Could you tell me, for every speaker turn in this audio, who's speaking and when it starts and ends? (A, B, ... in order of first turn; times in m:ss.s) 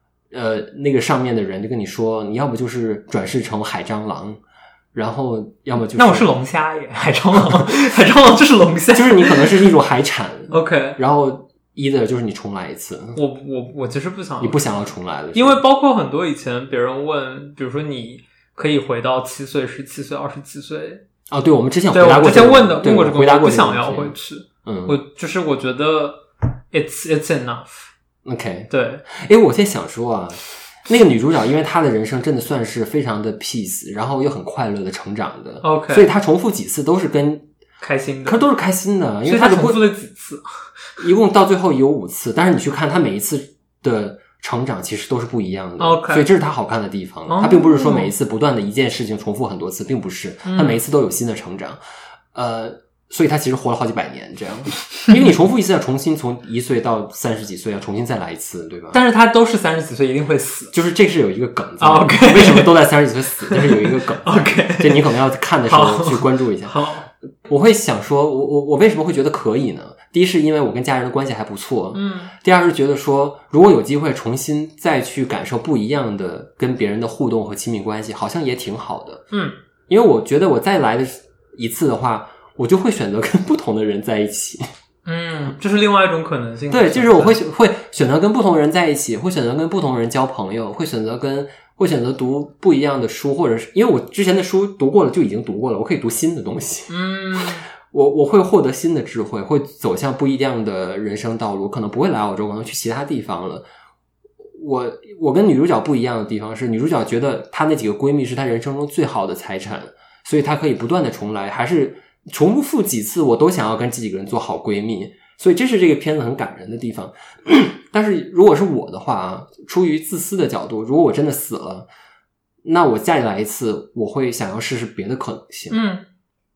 0:00.3-0:04.4 A
0:04.9-0:06.3 A
0:05.9-0:09.6 B
0:07.4-0:07.7 A
0:08.9-0:13.2 A
0:10.5-0:11.0 B
0:13.2-0:21.0 B
0:14.4-0:15.6 A
0:21.3-0:25.0 A
0:21.9-0:27.9 B
0:28.2-0:37.5 A
0:28.7-0:29.0 B
0:35.6-0:36.1 B
0:37.8-0:38.4 B
0:38.2-0:39.8 A
0:39.2-0:40.5 B
0:41.0-0:51.8 A
0:45.8-0:46.3 B
0:47.3-0:48.1 B
0:50.4-0:50.8 B
0:52.3-0:59.0 A
0:58.9-1:00.7 B
1:00.7-1:06.8 A
1:01.8-1:02.8 B
1:03.4-1:05.0 B
1:05.7-1:07.1 B
1:07.4-1:19.2 A
1:11.9-1:12.3 B
1:19.3-1:19.6 B
1:19.9-1:24.6 A
1:25.0-1:27.4 B
1:26.7-1:43.6 A
1:36.9-1:37.7 B
1:44.4-2:01.9 A
2:02.6-2:05.8 A
2:05.7-2:06.0 B